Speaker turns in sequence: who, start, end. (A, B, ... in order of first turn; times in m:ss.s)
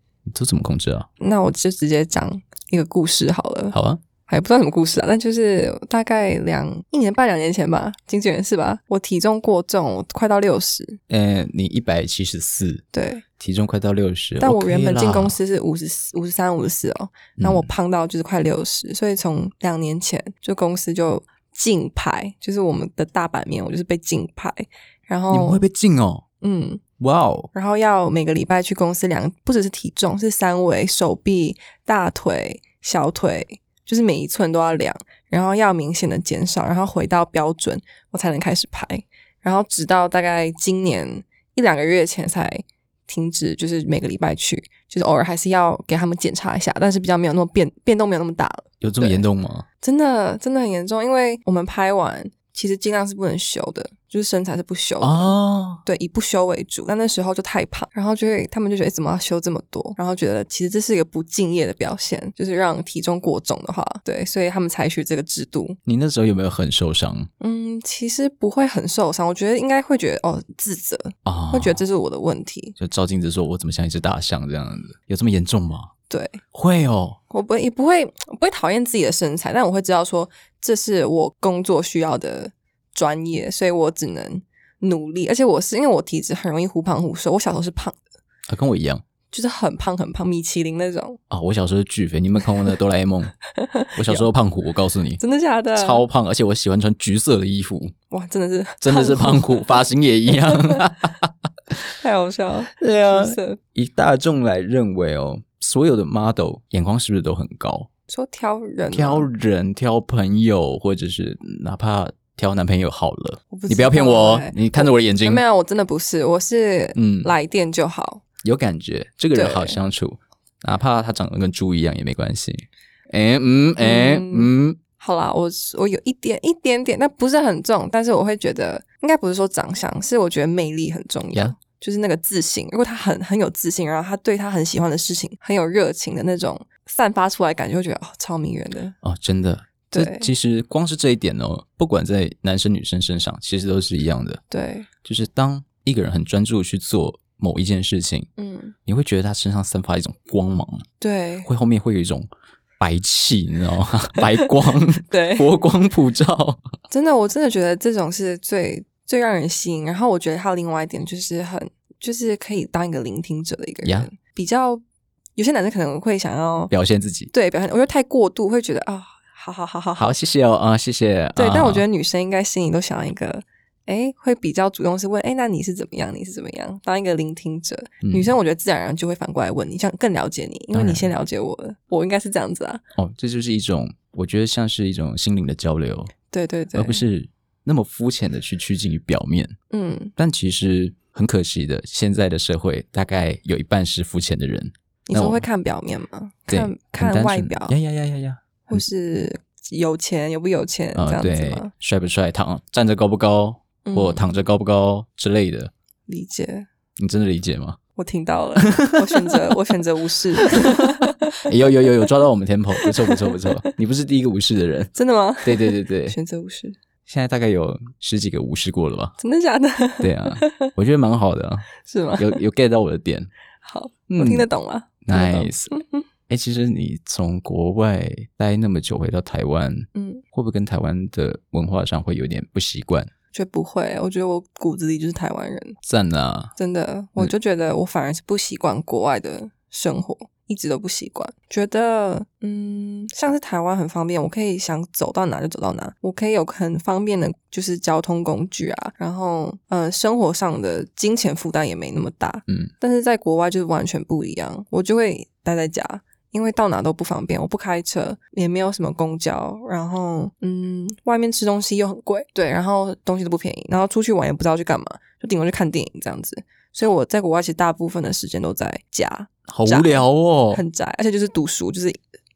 0:00.3-0:01.1 A
0:01.2-0:03.8 B
0:03.7-0:04.0 A
0:04.3-0:11.0 B
0:11.1-0:12.8 A
0:12.9-0:13.2 B
0:13.4-0:15.4 A
0:14.4-0:25.6 B
0:17.4-0:17.7 A
0:25.3-0:26.2 A
0:26.4-0:26.8 B
0:27.0-0:27.5 A
0:27.5-0:49.2 B
0:48.8-0:49.6 A
0:49.8-0:55.3 B
0:55.0-0:55.8 A
0:55.8-1:05.8 B
1:05.8-1:07.3 A
1:07.4-1:12.8 B
1:11.2-1:11.8 A
1:12.8-1:15.9 A
1:16.1-1:16.4 B
1:16.5-1:17.2 A
1:17.3-1:28.0 B
1:28.5-1:29.0 A
1:29.3-1:31.2 B
1:31.3-1:33.3 A
1:33.5-1:34.3 B
1:34.0-1:35.2 A
1:35.2-1:36.0 B
1:35.8-1:37.9 A
1:38.1-1:40.8 B
1:38.8-1:41.9 A
1:42.0-1:43.6 B
1:42.7-1:47.9 A
1:48.1-1:49.3 B
1:48.9-1:55.4 A
1:53.5-1:58.2 B
1:57.0-1:57.3 A
1:58.4-2:04.8 A
1:59.3-1:59.8 B
2:03.8-2:19.0 B
2:19.0-2:24.4 A
2:19.9-2:20.3 B
2:24.5-2:24.9 B
2:25.0-2:28.3 A
2:28.4-2:28.8 B
2:28.8-2:30.9 A
2:31.0-2:31.5 B
2:31.4-2:32.3 A
2:32.8-2:36.6 A
2:35.1-2:35.5 B
2:36.9-2:44.8 B
2:45.4-2:46.7 B
2:46.7-2:47.3 A
2:47.3-2:50.2 B
2:50.0-2:51.8 A
2:51.4-3:02.8 B
2:58.0-2:58.3 A
3:00.7-3:01.1 A
3:03.0-3:06.1 A
3:06.3-3:07.0 B
3:06.7-3:09.6 A
3:09.7-3:10.2 B
3:10.2-3:15.4 A
3:15.1-3:17.8 B
3:16.5-3:18.8 A
3:18.7-3:21.7 B
3:21.0-3:25.7 A
3:23.8-3:24.3 B
3:26.1-3:26.7 B
3:27.0-3:27.8 A
3:28.0-3:32.1 B
3:28.6-3:29.5 A
3:30.4-3:36.2 A
3:32.8-3:33.5 B
3:35.0-3:36.8 B
3:37.0-3:39.2 A
3:39.2-3:40.7 B
3:40.0-3:43.3 A
3:41.8-3:42.4 B
3:43.6-3:46.0 B
3:44.1-3:44.5 A
3:45.0-3:45.7 A
3:46.3-3:53.1 A
3:50.0-3:50.2 B
3:53.3-3:55.8 B
3:55.8-3:56.5 A
3:56.6-4:32.0 B
4:29.5-4:30.6 A